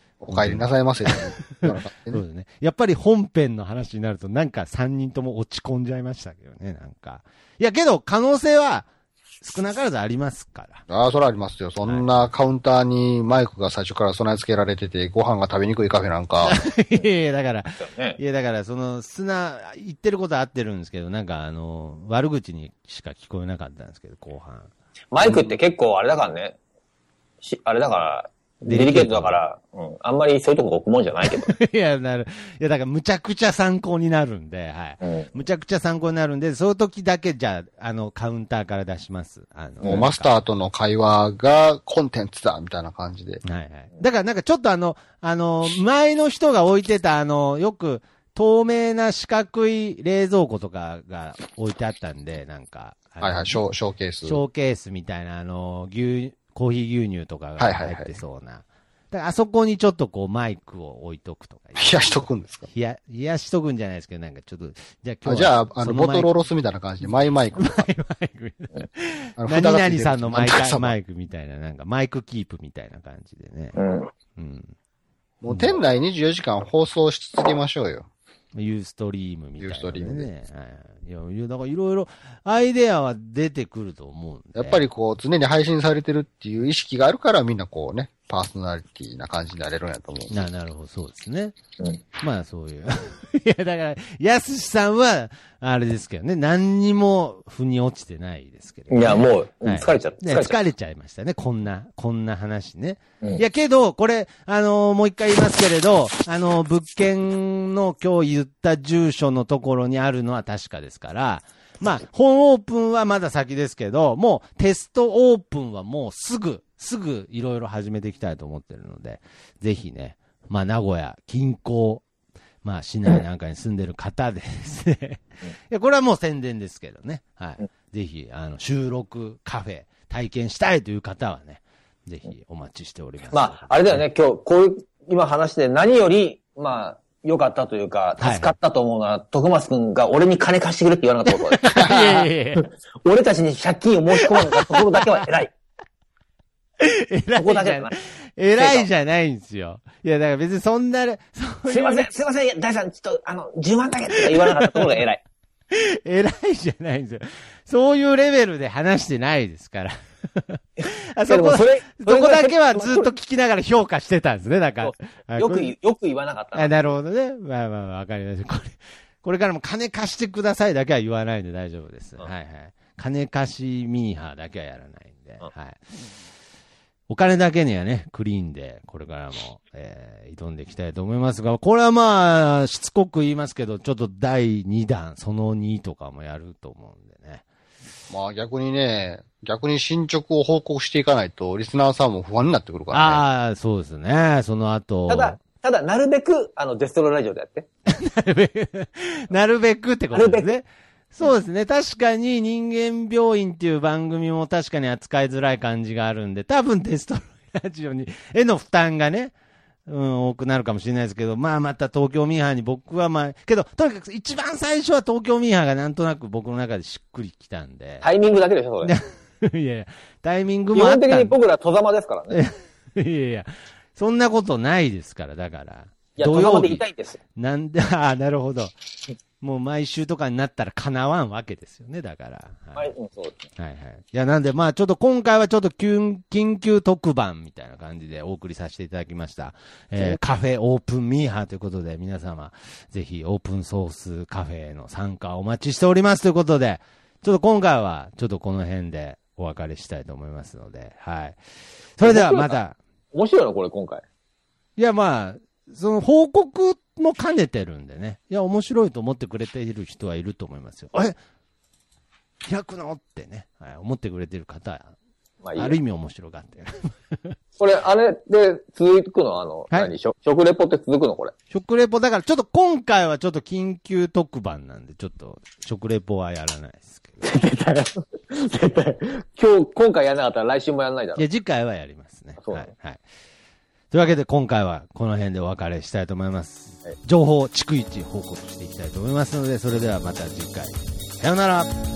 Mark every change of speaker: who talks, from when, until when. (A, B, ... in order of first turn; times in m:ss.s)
0:00.2-0:02.2 A
0:00.3-0:08.9 B
0:09.4-0:10.8 B
0:10.9-0:16.6 A
0:11.9-0:12.2 B
0:16.4-0:24.7 B
0:17.8-0:18.2 C
0:25.1-0:26.6 C
0:27.4-0:31.5 C
0:28.7-0:29.4 B
0:31.2-0:40.4 B
0:39.8-0:43.4 A
0:43.4-0:53.6 B
0:53.2-0:54.4 A
0:54.2-1:02.1 B
0:57.6-0:58.2 A
1:01.8-1:02.7 A
1:02.7-1:06.3 B
1:05.2-1:07.9 A
1:07.6-1:13.8 B
1:09.4-1:11.0 A
1:13.8-1:14.1 C
1:14.4-1:14.7 B
1:15.4-1:18.1 A
1:15.5-1:15.8 B
1:18.5-1:24.8 B
1:19.6-1:20.3 A
1:24.6-1:30.4 A
1:30.3-1:31.5 B
1:32.2-2:02.0 B
1:38.9-1:40.6 C
2:02.6-2:14.0 B
2:13.3-2:25.5 C
2:18.2-2:18.5 B
2:21.3-2:22.7 B
2:24.2-2:25.2 B
2:26.8-2:32.1 B
2:27.4-2:27.9 C
2:28.6-2:28.9 C
2:31.7-2:35.2 C
2:34.3-2:35.0 B
2:35.7-2:45.8 B
2:40.8-2:43.1 C
2:44.8-2:46.7 C
2:46.5-2:55.8 B
2:57.1-3:07.4 B
3:08.1-3:13.2 A
3:12.9-3:15.4 B
3:15.1-3:17.7 C
3:17.9-3:29.3 B
3:20.1-3:20.5 C
3:29.9-3:38.0 B
3:38.0-3:39.0 C
3:38.8-3:41.4 B
3:40.7-3:42.4 C
3:42.3-3:46.8 B
3:46.2-3:47.2 C
3:47.4-3:48.7 B
3:49.4-3:52.9 B
3:52.8-3:53.5 C
3:53.6-4:11.4 B
4:12.0-4:12.8 B
4:12.0-4:12.6 C
4:13.1-4:14.0 C
4:14.8-4:21.2 B
4:22.4-4:24.9 B
4:25.4-4:25.8 C
4:25.6-4:27.4 B
4:27.6-4:31.3 C
4:31.5-4:37.2 B
4:37.2-4:41.2 C
4:41.2-4:43.0 B
4:42.4-4:42.7 C
4:43.9-4:51.7 B